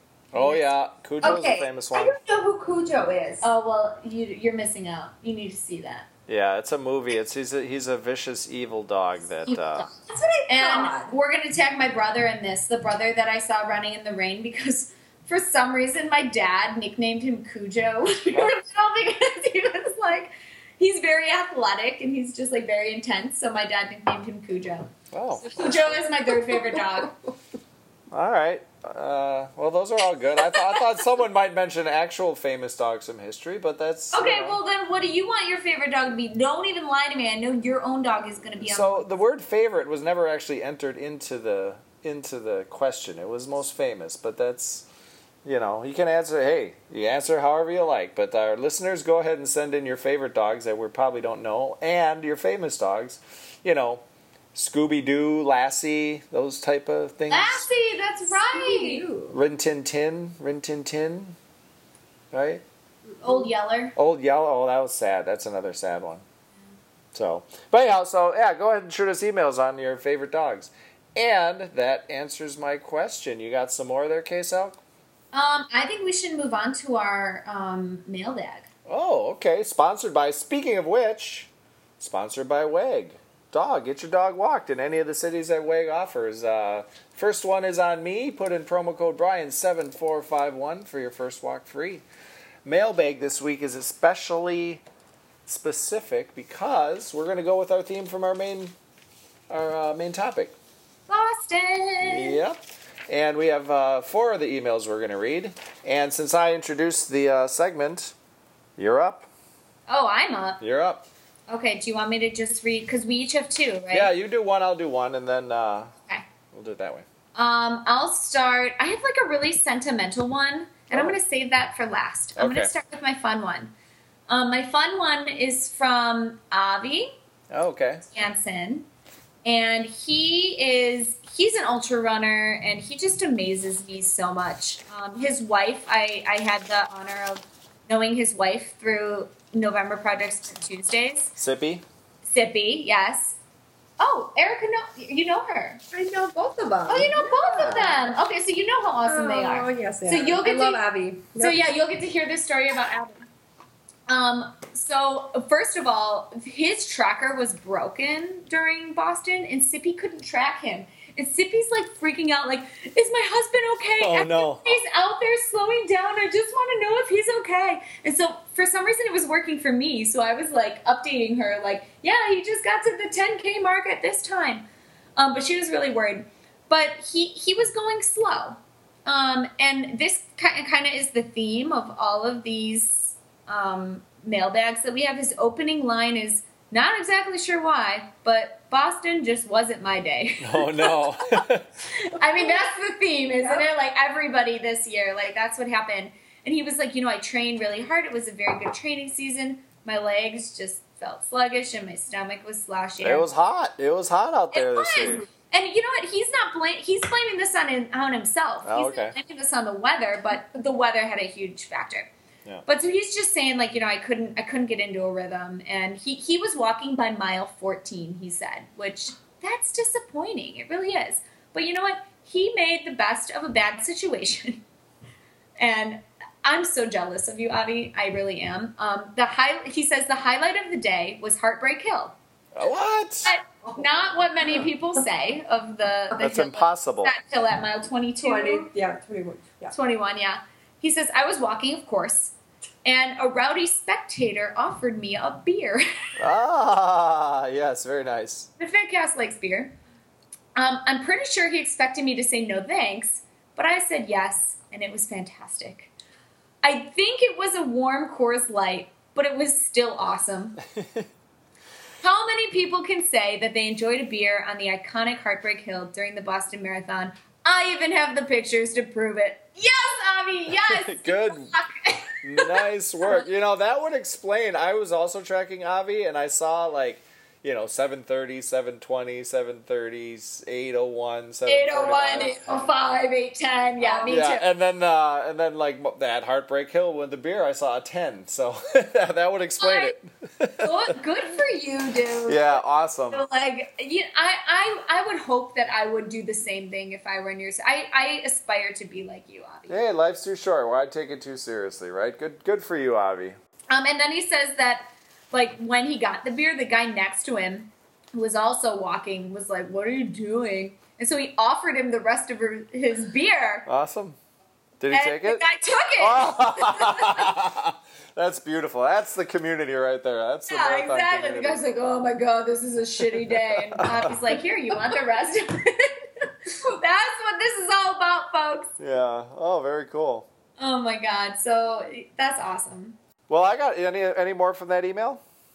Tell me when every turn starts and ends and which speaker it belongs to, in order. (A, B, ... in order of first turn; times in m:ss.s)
0:00.3-0:02.2 A
0:01.2-0:03.5 B
0:03.4-0:06.1 C
0:06.3-0:09.9 A
0:09.5-0:09.8 C
0:10.0-0:11.1 B
0:10.5-0:27.1 C
0:25.1-0:26.0 A
0:26.5-0:27.3 B
0:28.1-0:34.6 A
0:34.1-0:39.1 C
0:38.6-0:44.8 A
0:45.4-0:54.0 A
0:54.5-0:57.7 A
0:57.3-0:59.0 C
0:58.2-0:59.4 B
0:59.3-1:01.4 A
1:02.3-1:02.6 A
1:03.2-1:04.0 C
1:04.0-1:06.2 A
1:07.1-1:14.8 A
1:15.3-1:18.7 C
1:18.8-1:32.0 A
1:32.6-1:34.8 A
1:35.4-1:38.7 A
1:39.5-1:40.5 A
1:41.1-1:42.4 C
1:42.0-1:48.1 A
1:48.8-1:49.3 A
1:49.9-1:50.6 C
1:50.6-1:51.0 A
1:51.5-1:54.1 C
1:53.9-1:55.9 A
1:56.5-1:57.0 A
1:57.3-2:03.7 C
2:02.4-2:02.7 A
2:04.3-2:07.2 C
2:07.5-2:08.0 A
2:08.1-2:08.9 C
2:09.4-2:21.3 C
2:21.4-2:21.8 A
2:22.2-2:23.4 C
2:24.0-2:25.8 C
2:25.9-2:28.0 B
2:26.9-2:30.8 C
2:29.0-2:31.6 B
2:31.4-2:33.3 C
2:34.1-2:54.6 C
2:44.0-2:44.7 A
2:55.2-3:23.2 C
3:10.4-3:11.6 A
3:23.0-3:25.2 A
3:24.5-3:32.1 C
3:28.6-3:29.2 A
3:32.6-3:44.6 C
3:45.6-3:52.2 C
3:52.5-3:53.3 A
3:53.2-3:58.7 C
3:56.2-3:57.1 A
3:58.2-3:59.7 B
3:59.7-4:02.3 C
4:02.8-4:05.8 C
4:06.2-4:08.5 A
4:08.6-4:09.7 C
4:10.6-4:15.9 C
4:16.6-4:20.6 C
4:22.0-4:33.2 C
4:30.6-4:31.5 A
4:32.2-4:42.6 A
4:41.5-4:44.4 C
4:43.8-4:44.1 B
4:44.0-4:50.7 A
4:49.6-4:49.9 C
4:50.6-4:52.6 C
4:52.3-4:53.2 A
4:53.1-4:59.8 C
4:59.7-5:03.4 A
5:03.7-5:13.7 C
5:13.6-5:14.2 A
5:14.8-5:15.4 A
5:14.9-5:17.4 C
5:16.0-5:21.6 A
5:20.5-5:28.7 C
5:23.0-5:24.3 A
5:28.8-5:30.3 A
5:30.6-5:33.0 C
5:33.3-5:35.2 A